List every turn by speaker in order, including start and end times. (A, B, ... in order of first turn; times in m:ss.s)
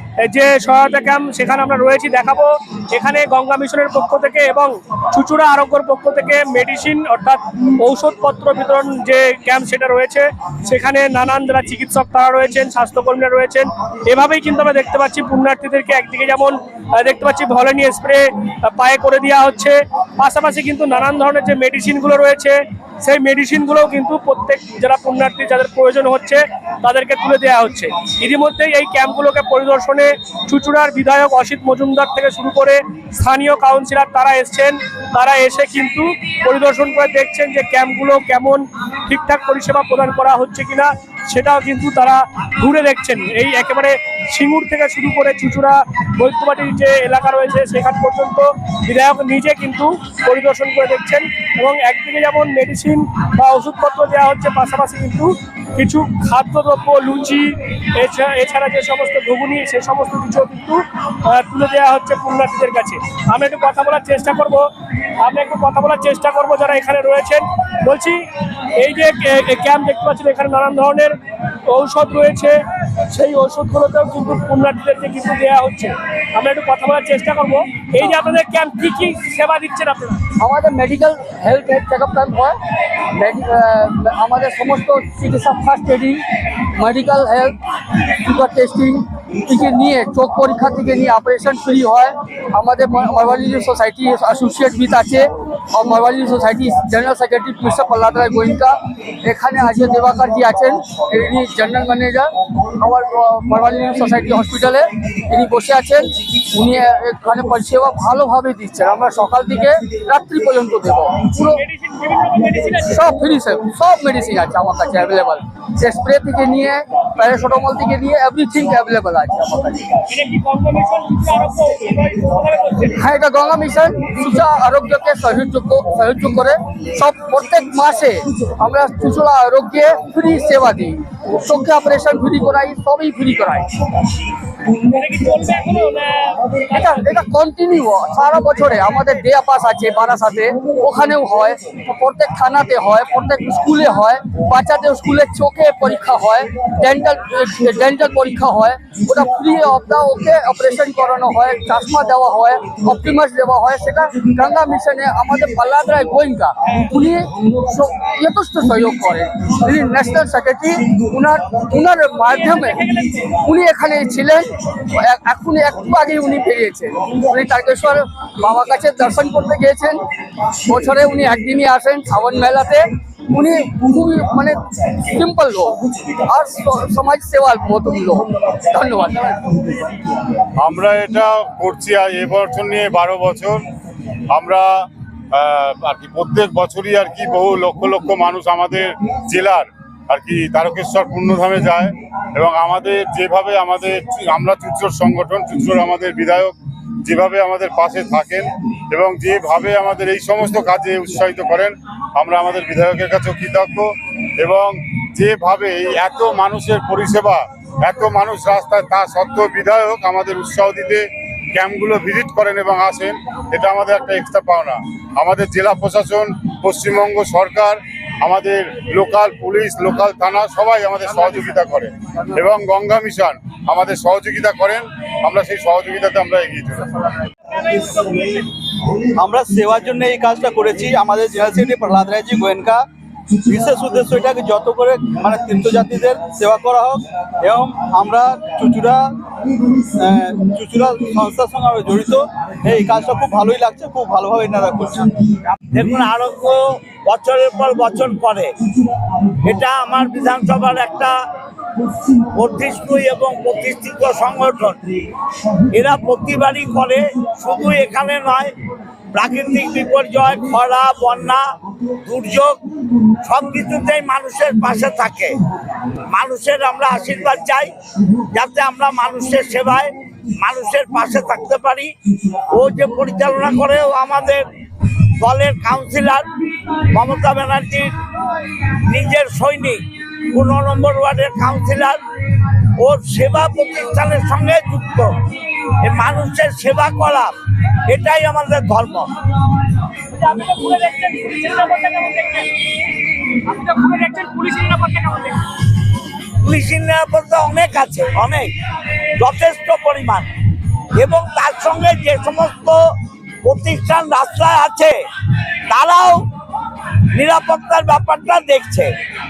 0:00.3-1:04.7 A
1:05.2-1:11.2 A
1:11.7-1:20.2 A
1:20.4-1:22.6 B
1:23.2-1:51.6 B
1:51.4-1:53.0 A
1:52.8-1:59.9 B
2:00.1-2:03.0 A
2:03.0-2:13.7 B
2:14.7-2:16.4 A
2:16.7-2:50.0 B
2:42.3-2:43.4 A
2:50.6-2:59.6 B
3:00.6-3:03.6 C
3:04.3-3:47.0 C
3:47.6-3:48.4 A
3:49.2-3:52.8 D
3:53.5-3:59.1 D
4:00.0-4:05.2 D
4:05.6-4:08.5 E
4:09.4-4:11.2 E
4:12.4-4:14.9 E
4:15.7-4:18.5 E
4:19.1-4:21.4 E
4:22.0-4:22.6 E
4:23.2-4:25.4 E
4:26.1-4:27.7 E
4:28.3-4:34.5 E
4:35.2-4:36.2 E
4:36.9-4:37.9 E
4:38.6-4:45.1 E
4:45.8-4:49.1 E
4:50.1-4:52.5 A
4:53.4-4:55.4 A
4:56.4-4:58.5 E
4:59.2-5:00.3 E
5:01.0-5:02.8 E
5:03.4-5:05.0 E
5:05.7-5:06.3 E
5:07.1-5:08.9 E